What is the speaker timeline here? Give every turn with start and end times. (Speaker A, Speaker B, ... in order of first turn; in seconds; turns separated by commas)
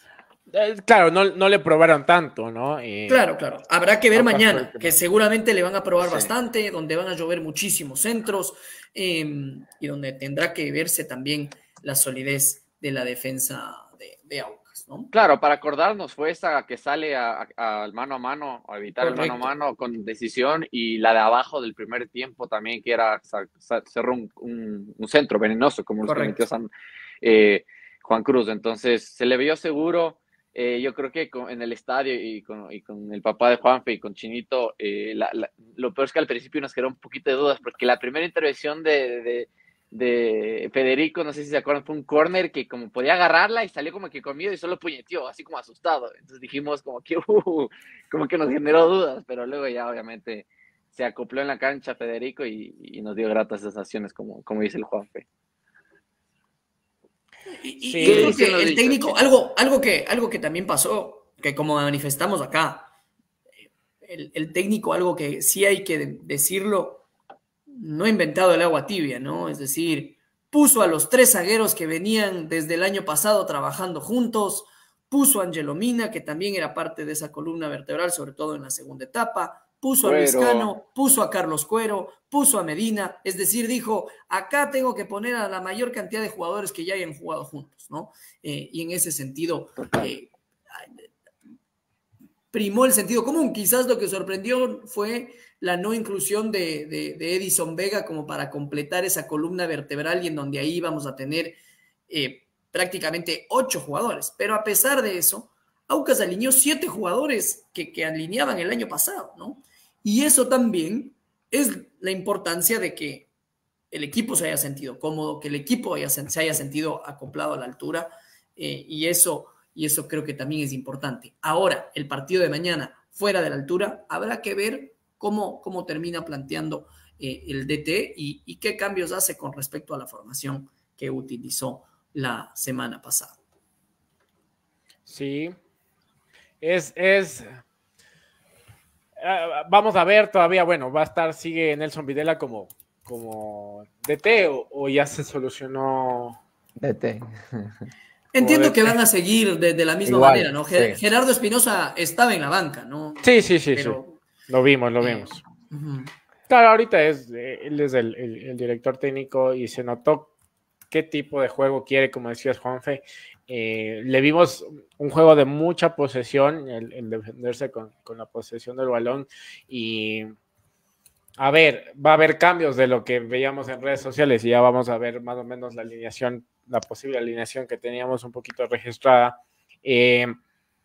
Speaker A: 0.5-3.2, Speaker B: 3.1-15.1, Speaker A: 4.1-5.0, Speaker C: 6.0-6.3, Speaker C: 15.1-26.7, Speaker B: 19.0-19.5, Speaker B: 26.0-26.5, Speaker C: 27.2-55.3, Speaker B: 57.6-62.9, Speaker A: 57.8-58.4, Speaker C: 58.0-59.2, Speaker B: 64.0-67.0, Speaker B: 67.7-90.8, Speaker C: 80.0-80.7, Speaker B: 92.5-101.6, Speaker B: 102.1-113.3, Speaker B: 113.9-133.4, Speaker A: 135.1-135.6, Speaker A: 136.6-137.6, Speaker A: 139.2-146.4, Speaker C: 146.8-147.9, Speaker B: 148.3-154.2, Speaker A: 148.4-149.0, Speaker C: 150.1-151.0, Speaker A: 153.2-155.4, Speaker B: 155.0-156.1, Speaker A: 156.5-160.3, Speaker A: 160.9-170.3, Speaker A: 171.4-180.4